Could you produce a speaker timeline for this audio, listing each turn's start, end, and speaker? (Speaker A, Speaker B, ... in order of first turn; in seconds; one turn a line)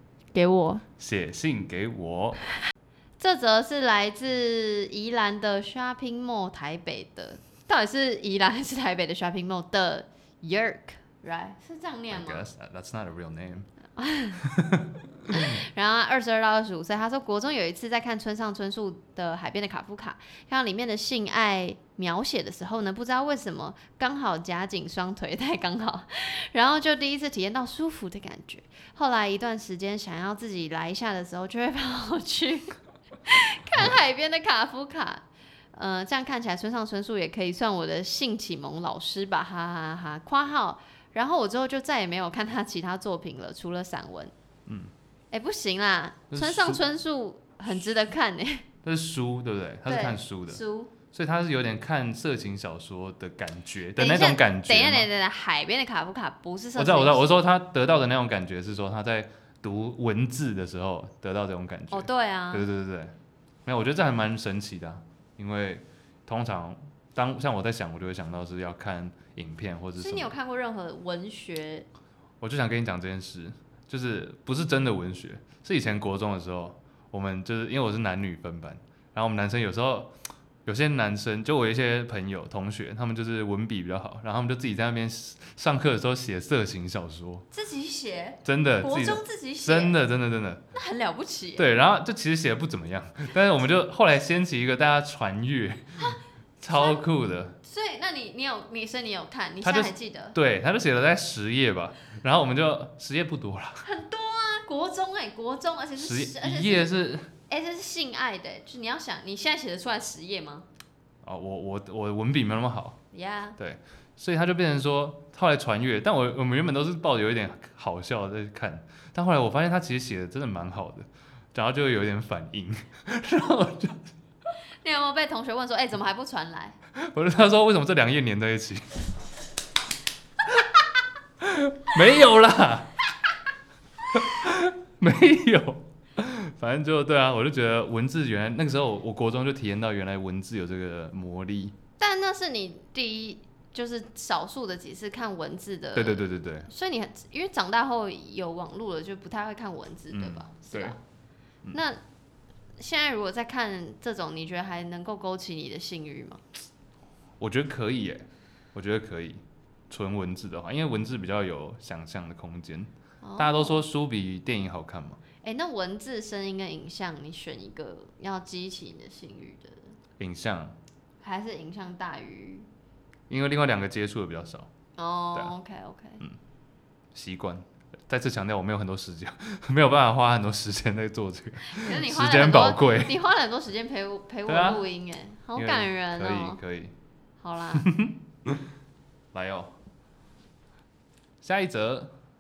Speaker A: 0.3-0.8
Speaker B: 1.0-2.4
Speaker A: 3.2-12.5
Speaker B: 12.1-13.7
Speaker A: 14.0-14.4
Speaker B: 14.4-15.6
Speaker A: 15.3-44.3
Speaker B: 44.7-44.9
Speaker A: 45.3-48.6
Speaker B: 46.3-46.8
Speaker B: 48.8-55.1
Speaker A: 49.9-50.9
Speaker A: 54.0-57.4
Speaker B: 56.8-63.1
Speaker A: 61.9-62.7
Speaker B: 63.7-70.3
Speaker A: 70.0-71.9
Speaker B: 72.4-80.1
Speaker B: 80.7-87.5
Speaker A: 87.5-90.0
Speaker B: 88.5-90.6
Speaker A: 90.7-91.7
Speaker B: 91.6-97.6
Speaker A: 96.7-97.0
Speaker A: 97.6-100.4
Speaker B: 99.6-103.8
Speaker A: 103.8-110.7
Speaker B: 106.0-107.3
Speaker B: 111.2-113.0
Speaker A: 113.1-113.6
Speaker B: 113.6-124.0
Speaker A: 124.8-126.8
Speaker B: 127.0-128.9
Speaker B: 131.4-132.9
Speaker B: 134.1-141.8
Speaker A: 142.0-151.0
Speaker B: 145.9-146.7
Speaker B: 150.1-151.0
Speaker A: 151.7-152.0
Speaker A: 152.8-156.4
Speaker B: 157.4-165.2
Speaker A: 163.2-163.8
Speaker A: 165.4-169.9
Speaker B: 170.2-170.8
Speaker A: 171.2-172.7
Speaker B: 173.3-174.7
Speaker A: 175.0-176.2
Speaker B: 177.1-183.1
Speaker A: 181.6-186.6
Speaker B: 184.5-184.8
Speaker B: 185.6-186.9
Speaker A: 187.4-187.9
Speaker B: 187.8-188.6
Speaker B: 189.3-189.8
Speaker B: 191.4-192.1